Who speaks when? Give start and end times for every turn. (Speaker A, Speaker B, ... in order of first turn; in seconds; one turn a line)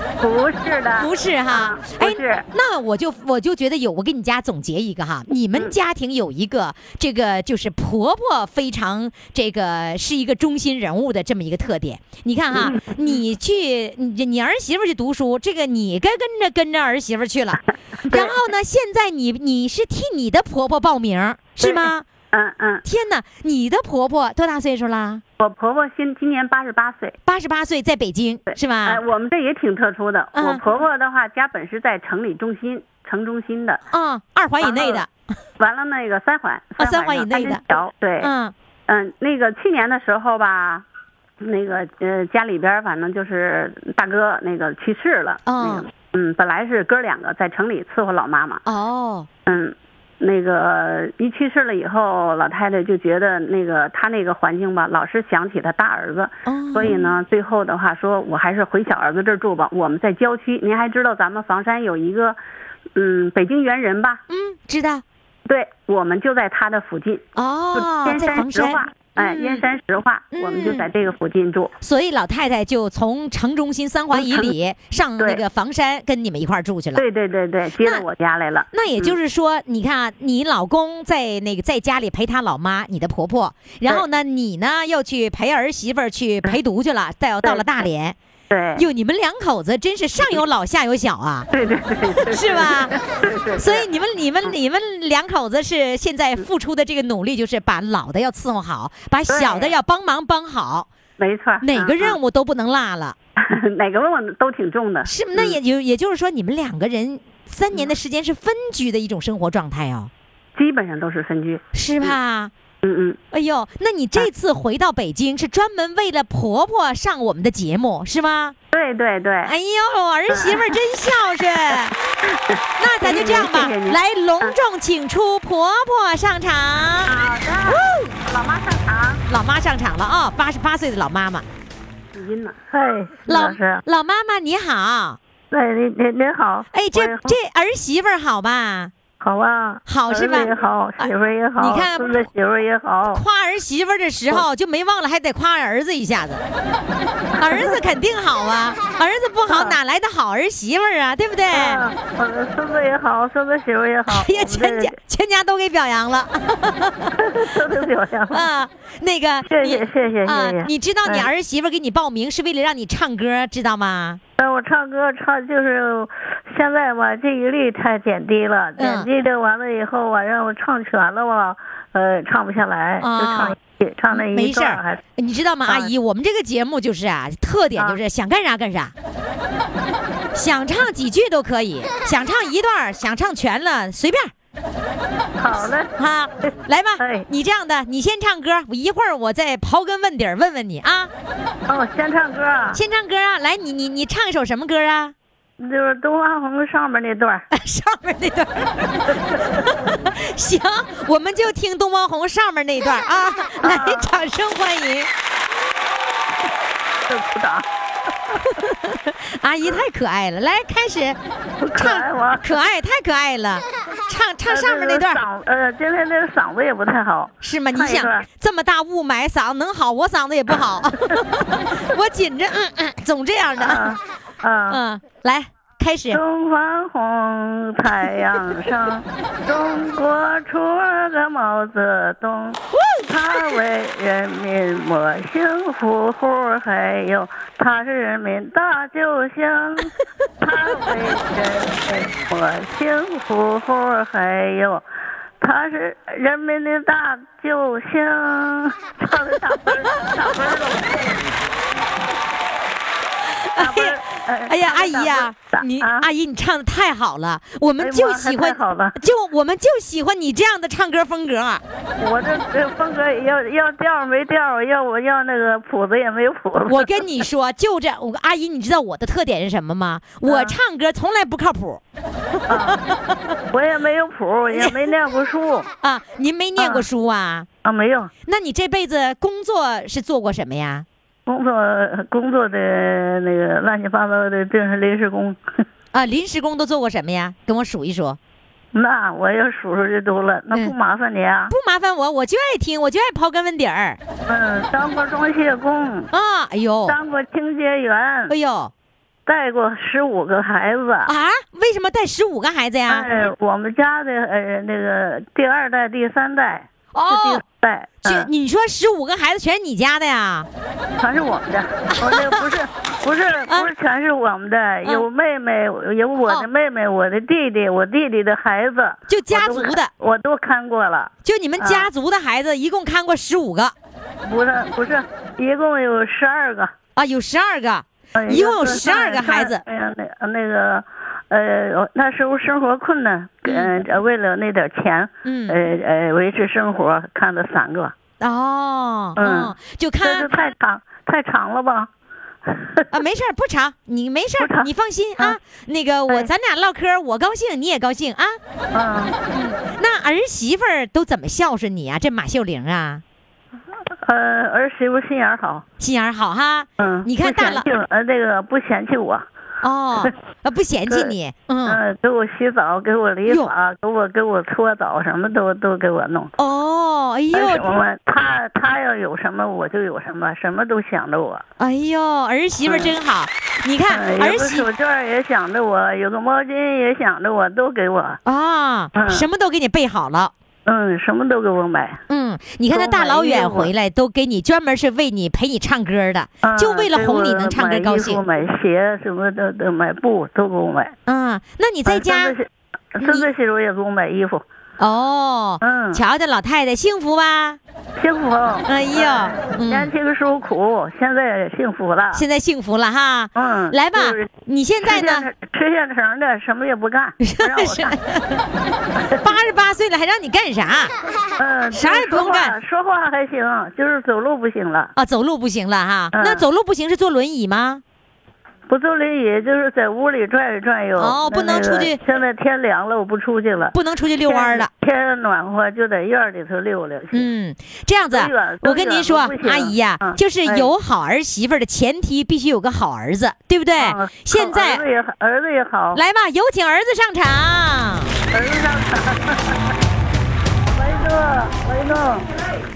Speaker A: 0.2-2.5
Speaker B: 1.0-22.1
Speaker A: 12.5-13.2
Speaker A: 18.1-18.4
Speaker A: 21.6-22.8
Speaker B: 22.8-25.2
Speaker A: 25.4-27.2
Speaker B: 27.3-29.0
Speaker A: 28.5-33.8
Speaker B: 30.4-30.6
Speaker B: 33.9-35.1
Speaker A: 34.6-35.0
Speaker A: 35.6-38.3
Speaker B: 36.8-37.6
Speaker B: 38.2-38.5
Speaker A: 38.9-40.9
Speaker A: 41.4-48.6
Speaker B: 45.5-45.9
Speaker B: 48.7-49.3
Speaker A: 49.5-62.4
Speaker B: 56.5-57.0
Speaker A: 63.0-64.2
Speaker B: 64.3-65.0
Speaker A: 65.5-71.7
Speaker B: 67.4-69.6
Speaker B: 70.3-70.9
Speaker B: 71.8-77.0
Speaker A: 74.1-74.5
Speaker A: 75.2-75.4
Speaker A: 77.0-79.2
Speaker B: 78.7-88.2
Speaker A: 87.4-87.8
Speaker A: 88.5-88.8
Speaker B: 88.8-91.5
Speaker A: 91.5-93.9
Speaker B: 92.2-92.9
Speaker B: 93.6-100.9
Speaker A: 99.3-99.8
Speaker A: 101.2-102.2
Speaker B: 101.6-103.2
Speaker A: 103.4-105.6
Speaker B: 105.1-110.1
Speaker A: 110.6-112.2
Speaker B: 111.7-112.5
Speaker A: 112.8-113.2
Speaker B: 113.3-118.6
Speaker A: 118.7-119.5
Speaker B: 119.5-121.9
Speaker A: 120.3-120.8
Speaker A: 122.3-124.6
Speaker B: 122.8-127.1
Speaker A: 127.1-129.2
Speaker B: 127.7-128.1
Speaker B: 129.3-131.4
Speaker A: 132.2-132.6
Speaker C: 132.7-133.8
Speaker B: 133.3-135.2
Speaker C: 135.5-137.3
Speaker B: 136.7-138.9
Speaker C: 139.2-143.2
Speaker B: 139.9-142.2
Speaker B: 143.1-146.4
Speaker C: 147.4-147.8
Speaker B: 147.4-151.8
Speaker C: 149.5-149.8
Speaker C: 151.5-155.0
Speaker B: 154.1-157.6
Speaker C: 157.2-158.5
Speaker B: 158.3-164.2
Speaker C: 159.5-161.3
Speaker C: 164.4-175.0
Speaker B: 168.8-169.1
Speaker B: 173.0-173.6
Speaker B: 174.1-178.9
Speaker C: 175.7-175.9
Speaker B: 180.3-184.3
Speaker C: 185.4-185.9
Speaker B: 186.0-191.1
Speaker C: 187.0-187.3
Speaker C: 191.7-192.8
Speaker B: 192.7-195.1
Speaker C: 195.6-197.5
Speaker B: 197.5-205.1
Speaker C: 203.6-204.1
Speaker C: 207.1-207.7
Speaker B: 208.4-211.2
Speaker C: 211.6-212.6
Speaker B: 211.7-215.2
Speaker C: 214.5-218.3
Speaker B: 217.4-223.9
Speaker C: 223.6-224.8
Speaker B: 224.7-226.2
Speaker C: 226.1-244.8
Speaker C: 245.4-251.2
Speaker B: 253.3-254.0
Speaker C: 253.6-256.1
Speaker B: 254.5-261.6
Speaker C: 257.8-259.0
Speaker C: 262.0-267.0
Speaker B: 266.7-271.8
Speaker C: 270.2-270.6
Speaker C: 272.5-272.8
Speaker B: 272.5-273.2
Speaker C: 273.5-275.7
Speaker B: 274.5-274.8
Speaker B: 275.8-277.5
Speaker C: 276.6-276.9
Speaker C: 277.6-278.1
Speaker B: 278.3-280.9
Speaker C: 281.3-285.4
Speaker B: 285.9-288.2
Speaker C: 288.7-291.5
Speaker B: 291.5-294.0
Speaker C: 294.3-296.1
Speaker B: 296.1-297.0
Speaker C: 296.9-298.4
Speaker B: 298.3-298.7
Speaker C: 299.3-301.1
Speaker B: 301.1-303.1
Speaker C: 302.9-308.3
Speaker B: 306.9-307.4
Speaker B: 308.0-310.5
Speaker C: 311.0-321.9
Speaker B: 311.9-312.4
Speaker B: 319.1-319.9
Speaker B: 321.2-323.7
Speaker C: 324.2-326.7
Speaker B: 327.0-329.6
Speaker C: 328.1-337.9
Speaker B: 333.4-333.7
Speaker B: 335.2-335.6
Speaker B: 338.2-340.3
Speaker C: 339.2-341.9
Speaker C: 342.5-342.9
Speaker B: 342.9-348.4
Speaker C: 344.4-345.4
Speaker C: 348.7-349.1
Speaker B: 349.3-353.0
Speaker C: 354.0-355.6
Speaker B: 355.8-357.7
Speaker C: 356.8-359.3
Speaker B: 359.6-361.8
Speaker C: 360.9-361.1
Speaker C: 361.7-366.3
Speaker B: 363.3-363.5
Speaker B: 366.4-367.8
Speaker C: 367.3-371.4
Speaker B: 371.6-374.7
Speaker C: 372.7-372.9
Speaker C: 373.9-378.2
Speaker B: 378.2-380.3
Speaker C: 378.9-379.3
Speaker C: 380.7-382.0
Speaker B: 382.1-388.2
Speaker C: 382.7-383.7
Speaker C: 386.4-390.9
Speaker B: 391.1-392.4
Speaker C: 391.9-394.4
Speaker B: 393.0-393.3
Speaker B: 394.8-397.6
Speaker C: 395.6-396.0
Speaker C: 398.0-402.2
Speaker B: 398.7-399.9
Speaker B: 402.1-405.3
Speaker C: 403.4-404.3
Speaker C: 404.8-408.0
Speaker B: 407.2-408.4
Speaker B: 409.1-410.9
Speaker C: 411.4-414.9
Speaker B: 411.7-412.6
Speaker B: 415.0-417.8
Speaker C: 416.1-416.4
Speaker C: 418.7-427.3
Speaker B: 421.0-422.0
Speaker B: 423.7-424.7
Speaker B: 427.1-434.8
Speaker C: 428.1-430.7
Speaker C: 433.8-436.0
Speaker B: 435.9-438.1
Speaker C: 438.3-439.4
Speaker C: 440.7-442.3